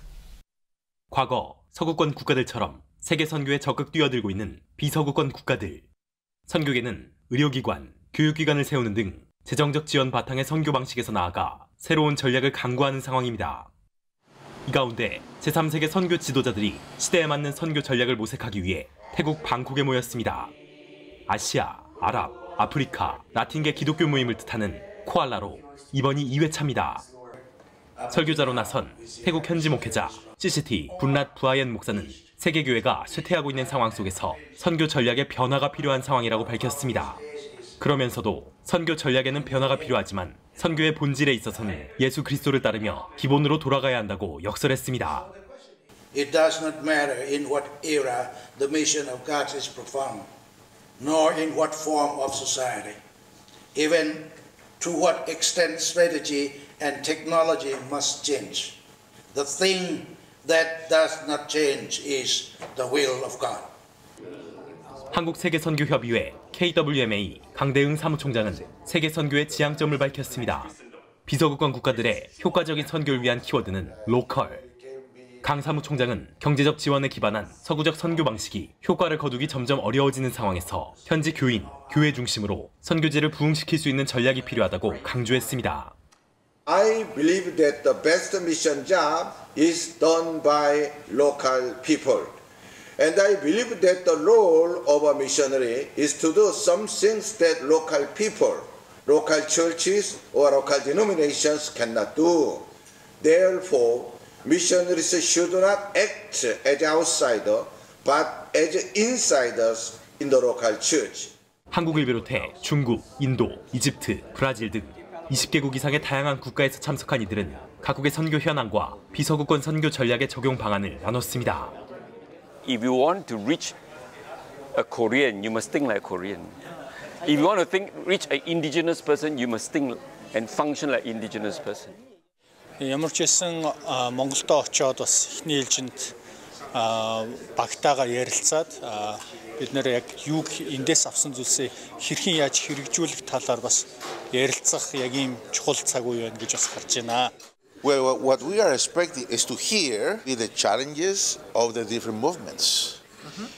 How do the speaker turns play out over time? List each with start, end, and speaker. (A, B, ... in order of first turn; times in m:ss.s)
0:01.1-0:05.8 A
0:06.5-0:13.7 A
0:14.6-0:20.5 A
0:21.3-0:27.1 A
0:28.1-0:37.2 A
0:37.8-0:45.3 A
0:46.1-0:50.3 B
0:51.0-0:53.0 B
0:53.7-0:58.8 B
0:59.3-1:03.7 B
1:05.1-1:10.7 A
1:11.2-1:14.6 A
1:14.0-1:15.6 C
1:15.4-1:25.9 A
1:26.6-1:32.3 C
1:33.0-1:51.3 C
1:51.7-2:01.7 A
2:02.6-2:03.8 D
2:04.7-2:06.6 D
2:07.2-2:11.9 D
2:12.8-2:16.1 E
2:16.7-2:27.3 E
2:27.8-2:33.0 F